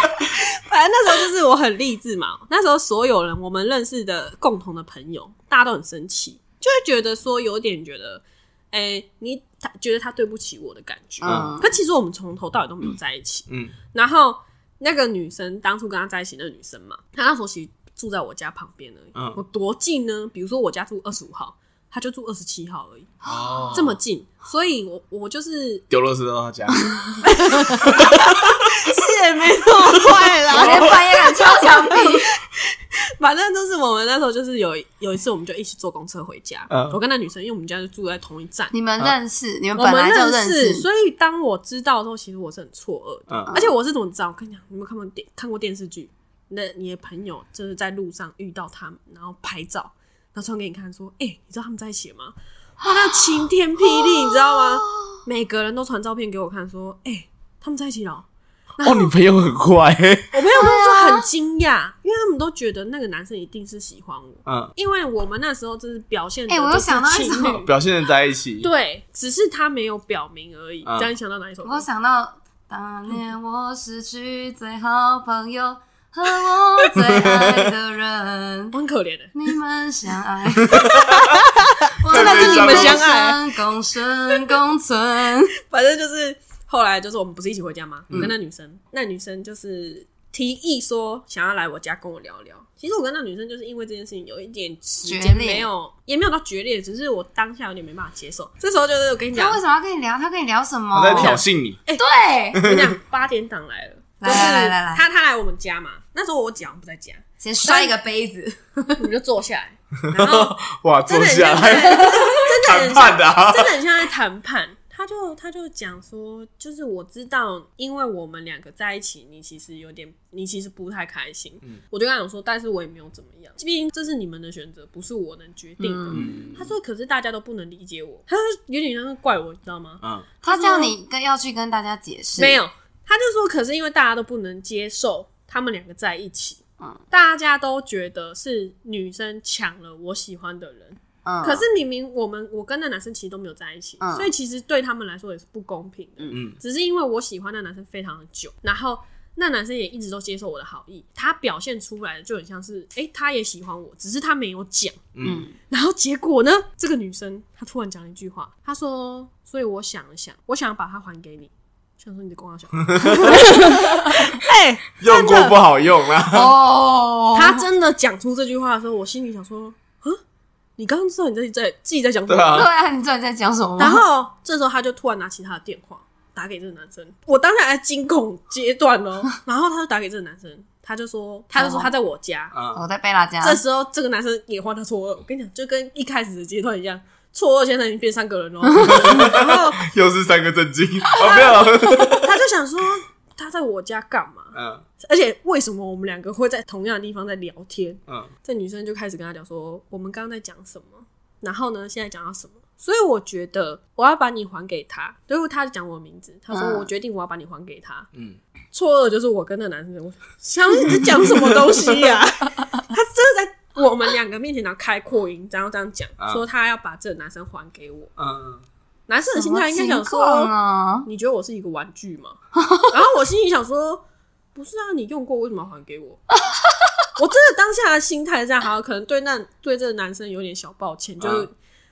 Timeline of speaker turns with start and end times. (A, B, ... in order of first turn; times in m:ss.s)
0:00.3-0:23.2 A
0:11.2-0:11.7 B
0:11.2-0:11.6 C
0:13.5-0:13.8 C
0:19.2-0:19.4 C
0:23.3-0:24.0 C
0:23.7-0:25.8 A
0:25.9-0:27.0 C
0:27.2-0:38.7 A
0:27.6-0:28.6 C
0:30.5-0:31.2 C
0:30.5-0:32.4 B
0:36.7-0:37.0 C
0:38.7-0:40.9 B
0:39.8-0:58.2 A
0:43.3-0:43.6 C
0:52.8-0:53.2 B
0:53.8-0:55.2 B
0:58.8-0:59.1 A
0:58.8-1:00.4 C
1:00.3-1:07.7 A
1:00.6-1:01.3 B
1:04.5-1:04.7 C
1:06.5-1:07.6 B
1:07.6-1:08.7 C
1:08.6-1:11.9 A
1:11.6-1:18.8 B
1:17.0-1:17.7 C
1:18.7-1:19.3 A
1:19.3-1:20.8 B
1:20.6-1:21.4 C
1:20.8-1:23.6 A
1:22.0-1:25.6 B
1:22.1-1:23.1 C
1:24.3-1:24.6 A
1:25.6-1:39.6 A
1:35.0-1:35.7 B
1:39.3-1:41.4 B
1:40.9-1:41.8 C
1:41.1-1:48.0 A
1:42.0-1:42.6 B
1:42.5-1:43.0 C
1:44.2-1:45.0 B
1:47.4-1:49.0 B
1:49.0-2:10.9 A
1:50.1-1:53.7 C
1:52.1-1:52.4 B
2:05.8-2:06.4 B
2:06.1-2:06.7 C
2:10.4-2:12.6 B
2:12.4-2:35.1 A
2:21.2-2:21.6 B
2:24.0-2:24.3 B
2:26.3-2:26.6 C
2:35.2-2:35.5 C
2:35.2-2:35.5 B
2:35.7-2:45.6 A
2:42.9-2:43.5 C
2:43.6-2:43.9 B
2:45.0-2:46.6 C
2:46.3-2:47.6 B
2:47.4-2:50.2 A
2:50.8-2:52.7 A
2:52.3-2:52.7 C
2:52.5-2:54.0 B
2:53.8-3:02.6 A
3:01.6-3:01.9 B
3:02.5-3:02.8 C
3:02.7-3:03.6 B
3:03.4-3:09.8 A
3:08.8-3:12.3 C
3:11.2-3:28.1 A
3:14.5-3:14.8 C
3:26.5-3:26.9 B
3:28.1-3:28.4 C
3:28.7-3:38.1 A
3:36.2-3:36.4 C
3:38.2-3:38.6 C
3:39.1-3:40.5 A
3:39.3-3:41.1 B
3:41.0-3:44.0 A
3:42.6-3:43.0 B
3:44.6-3:46.2 A
3:46.4-3:47.1 B
3:47.2-3:51.5 A
3:51.2-3:51.5 C